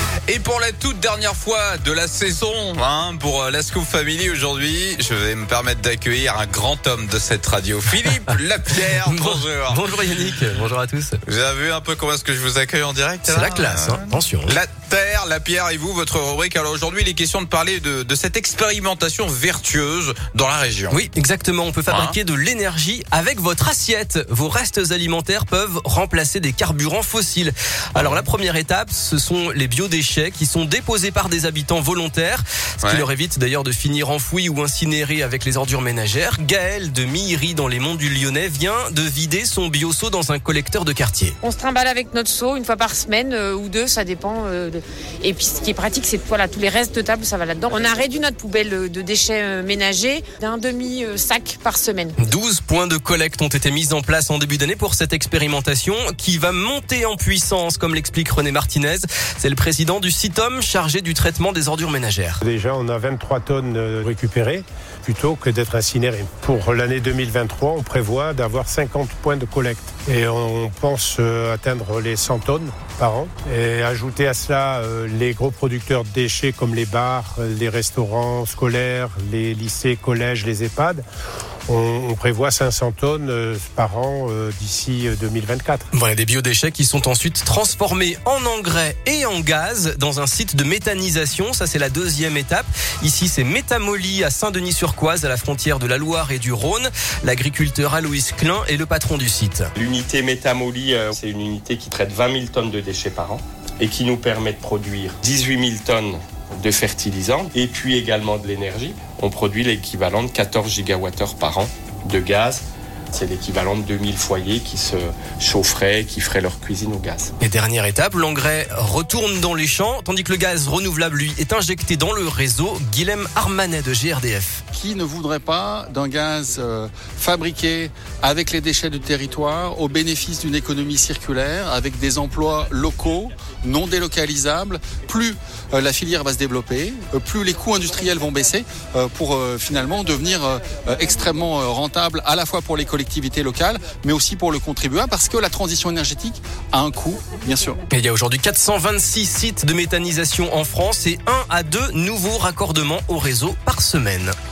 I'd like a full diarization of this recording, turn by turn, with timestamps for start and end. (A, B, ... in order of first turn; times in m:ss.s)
0:00.3-0:09.8 A
0:08.8-0:11.2 B
0:11.2-0:21.0 A
0:13.3-0:14.6 B
0:20.9-0:41.4 B
0:21.9-0:22.2 A
0:28.0-0:28.2 A
0:41.4-0:52.2 C
0:52.2-1:02.4 B
1:02.4-1:21.0 D
1:21.7-1:25.9 D
1:25.9-1:39.7 B
1:39.8-1:57.3 E
1:57.4-2:04.6 B
2:04.7-2:27.8 F
2:27.9-2:34.4 B